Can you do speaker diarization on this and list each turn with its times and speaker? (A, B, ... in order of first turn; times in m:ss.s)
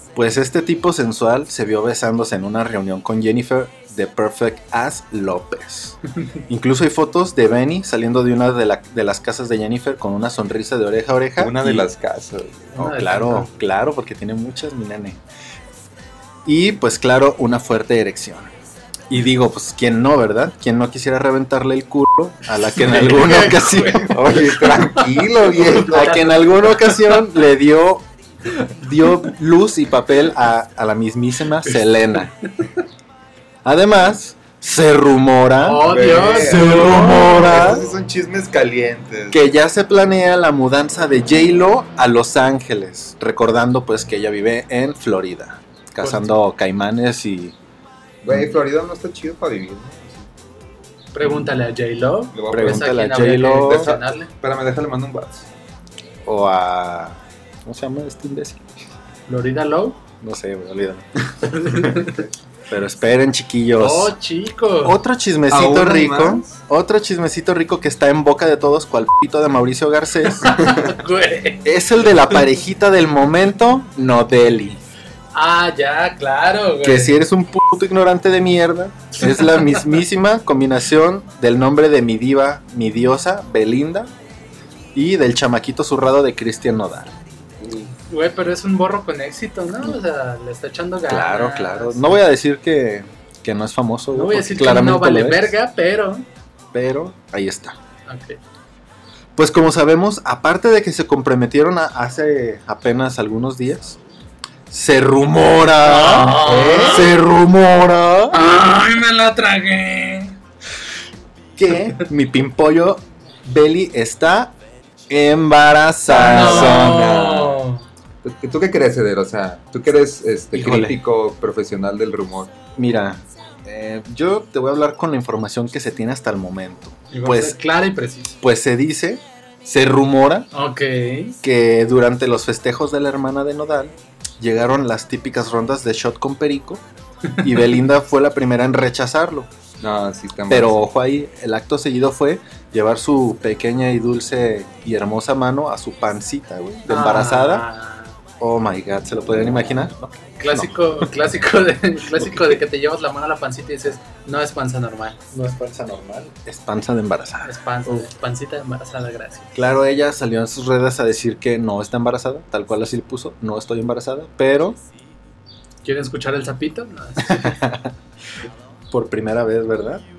0:00.2-0:11.9 A
0:11.4-0:12.9 B
0:12.8-0:13.5 C
0:12.8-0:15.2 A
0:16.4-0:18.5 A
0:19.1-0:24.4 A
0:22.8-0:27.2 C
0:24.1-0:26.5 B
0:25.7-0:28.0 A
0:28.7-0:32.4 A
0:32.4-0:32.8 C
0:33.6-0:37.9 A
0:35.6-0:37.9 C
0:35.9-0:39.4 B
0:39.3-0:47.6 A
0:46.0-0:46.4 C
0:48.2-0:50.3 B
0:51.1-0:54.3 C
0:52.3-0:55.5 B
0:52.5-0:54.0 A
0:56.2-0:58.6 A
0:59.3-1:00.0 C
1:00.2-1:01.1 A
1:01.4-1:02.2 C
1:01.7-1:02.3 B
1:02.7-1:04.2 A
1:03.8-1:05.0 C
1:04.8-1:10.7 A
1:05.5-1:06.6 B
1:10.2-1:11.7 C
1:11.6-1:14.8 A
1:15.3-1:17.2 C
1:16.8-1:24.1 A
1:19.3-1:19.6 C
1:24.9-1:27.1 A
1:27.9-1:32.2 C
1:31.1-1:35.5 A
1:34.1-1:36.3 C
1:36.7-1:37.8 A
1:38.1-1:38.4 C
1:39.4-1:44.0 A
1:44.7-1:48.4 A
1:45.8-1:47.1 C
1:46.3-1:47.1 B
1:48.3-1:50.4 C
1:51.6-1:54.5 A
1:55.1-1:56.9 A
1:56.1-1:57.6 B
1:56.1-1:57.8 C
1:58.2-2:02.6 B
2:00.5-2:01.0 A
2:02.8-2:07.6 A
2:07.1-2:08.4 C
2:08.4-2:10.5 A
2:10.5-2:11.4 C
2:11.4-2:16.8 A
2:17.4-2:19.5 A
2:19.8-2:20.8 B
2:20.5-2:27.6 A
2:26.9-2:28.2 C
2:28.4-2:30.7 A
2:30.4-2:35.3 C
2:32.2-2:32.6 A
2:35.3-2:38.1 A
2:37.4-2:39.6 C
2:39.5-2:44.8 A
2:45.8-2:47.7 C
2:47.3-2:47.9 A
2:48.9-2:50.0 A